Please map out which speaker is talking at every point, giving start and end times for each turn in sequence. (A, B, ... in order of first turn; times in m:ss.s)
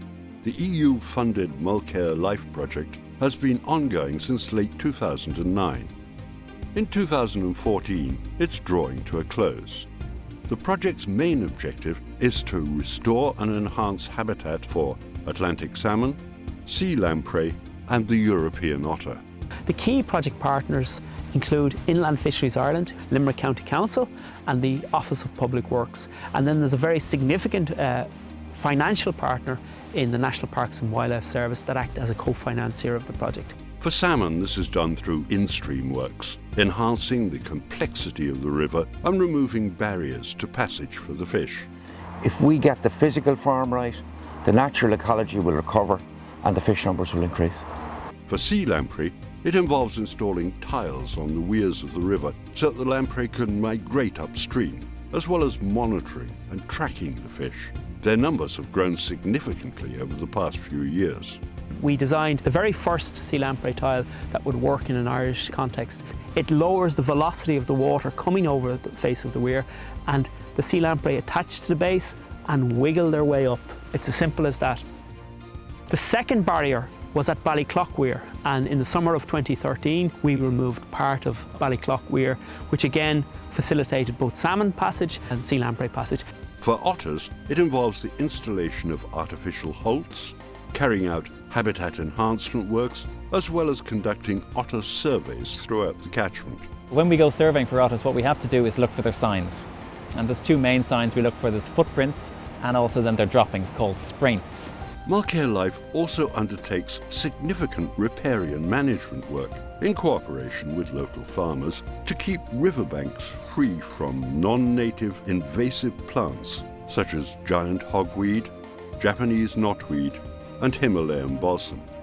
0:00.4-0:05.9 A
0:06.7-0:09.9 A
0:10.5-0:19.2 A
0:19.7-0:33.5 B
0:33.8-0:41.7 A
0:42.2-0:47.6 C
0:48.3-1:01.4 A
1:01.8-1:14.8 B
1:15.9-1:26.2 B
1:26.6-1:36.7 A
1:36.9-1:44.7 D
1:45.0-2:01.9 A